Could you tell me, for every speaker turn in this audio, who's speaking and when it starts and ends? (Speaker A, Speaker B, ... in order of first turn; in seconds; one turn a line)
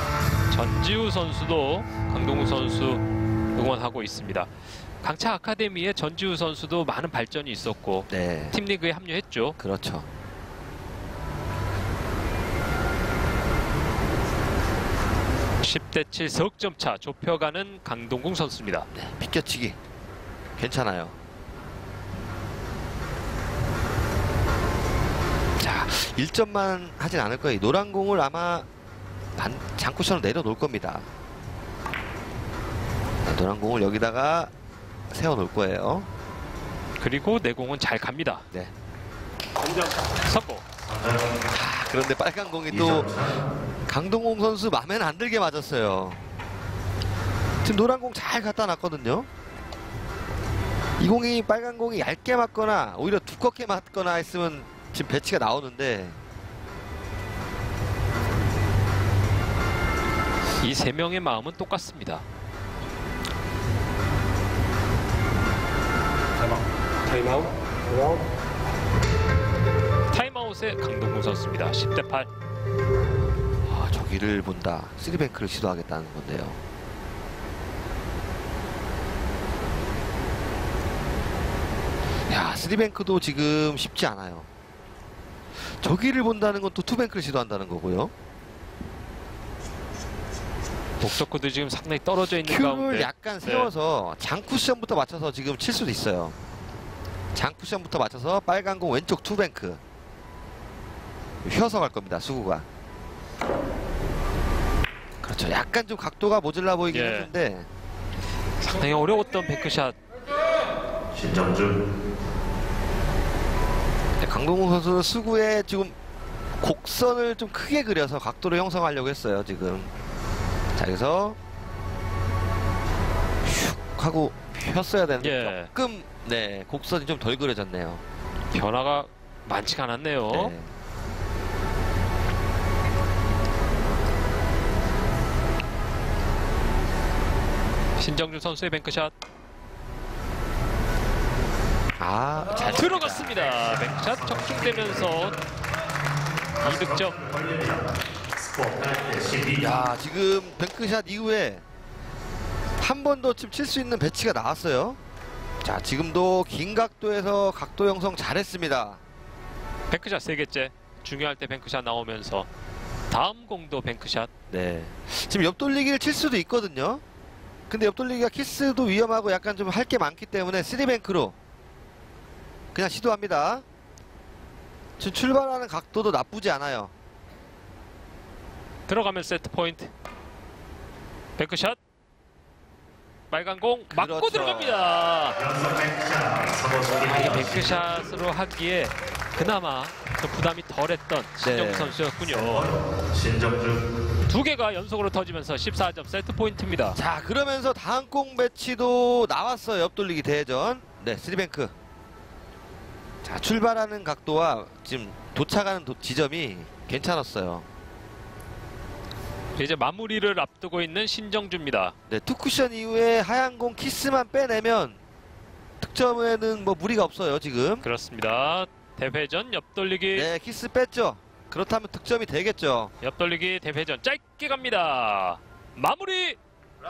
Speaker A: 0.5-3.0
Speaker A: 3.5-9.6
Speaker B: 8.1-8.6
Speaker B: 9.6-10.1
Speaker A: 15.6-18.9
Speaker B: 18.9-19.8
Speaker B: 20.6-21.2
Speaker B: 25.6-28.7
Speaker B: 29.4-31.1
Speaker B: 33.2-34.5
Speaker B: 35.1-36.1
Speaker A: 37.0-38.5
Speaker A: 40.2-40.7
Speaker C: 41.0-41.2
Speaker B: 41.5-43.4
Speaker B: 43.9-46.2
Speaker B: 47.6-49.3
Speaker B: 51.0-56.2
Speaker A: 60.6-62.2
Speaker A: 70.1-72.3
Speaker B: 73.7-76.6
Speaker B: 82.3-84.5
Speaker B: 85.5-88.1
Speaker A: 91.0-93.7
Speaker B: 92.4-96.4
Speaker B: 97.3-99.8
Speaker B: 101.4-102.7
Speaker B: 105.2-107.7
Speaker A: 106.9-107.3
Speaker A: 108.6-110.0
Speaker C: 111.1-111.8
Speaker B: 114.2-116.0
Speaker B: 116.6-119.9
Speaker B: 120.8-121.4
Speaker B: 123.4-128.0
Speaker A: 125.2-125.7
Speaker A: 128.5-130.6
Speaker B: 130.3-130.7
Speaker A: 138.0-139.1
Speaker B: 142.0-143.5
Speaker A: 142.6-145.4
Speaker A: 146.6-147.4
Speaker C: 147.4-147.9
Speaker C: 148.6-149.6
Speaker B: 149.5-151.6
Speaker B: 152.8-155.0
Speaker B: 155.6-159.0
Speaker A: 159.9-162.5
Speaker A: 163.1-164.3
Speaker B: 164.5-167.0
Speaker B: 167.7-171.4
Speaker B: 172.7-173.6
Speaker B: 175.0-176.9
Speaker A: 178.9-179.9
Speaker A: 181.4-181.8
Speaker A: 183.3-185.5
Speaker B: 183.9-184.9
Speaker C: 185.5-187.0
Speaker A: 186.9-192.7
Speaker B: 191.4-192.0
Speaker C: 193.1-193.8
Speaker A: 194.3-197.0
Speaker B: 196.9-201.7
Speaker B: 203.2-207.7
Speaker A: 209.6-211.9
Speaker B: 212.1-215.0
Speaker B: 215.8-217.8
Speaker A: 217.8-220.3
Speaker B: 220.1-222.9
Speaker A: 223.0-226.4